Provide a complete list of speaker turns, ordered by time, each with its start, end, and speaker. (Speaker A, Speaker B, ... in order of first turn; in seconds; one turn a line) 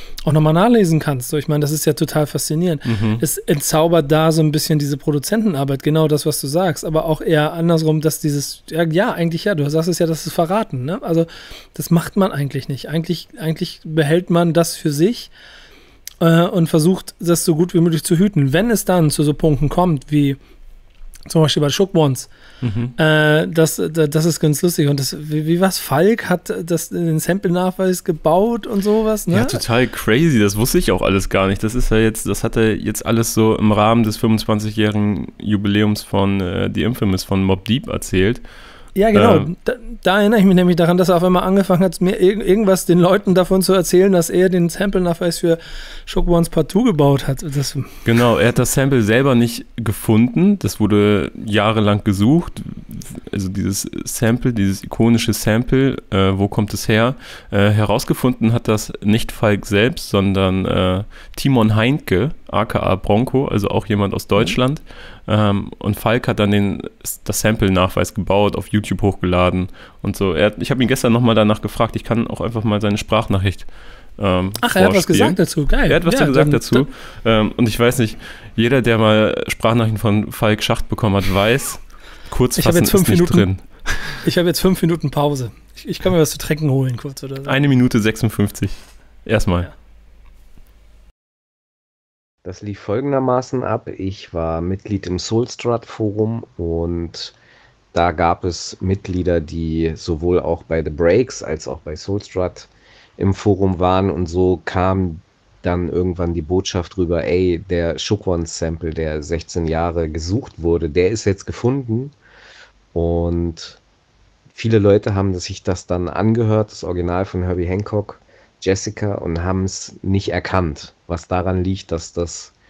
Speaker A: 0.2-15.3
Speaker B: 2.9-3.2
Speaker A: 16.2-20.4
Speaker A: 21.3-22.3
Speaker B: 22.6-22.9
Speaker A: 23.0-29.6
Speaker B: 29.3-38.4
Speaker A: 39.0-48.0
Speaker B: 39.1-39.5
Speaker B: 48.1-84.2
Speaker A: 74.6-76.8
Speaker A: 82.6-83.5
Speaker A: 84.2-87.6
Speaker B: 87.5-89.7
Speaker C: 92.5-97.3
Speaker C: 97.9-112.1
Speaker C: 112.9-113.8
Speaker C: 114.5-122.5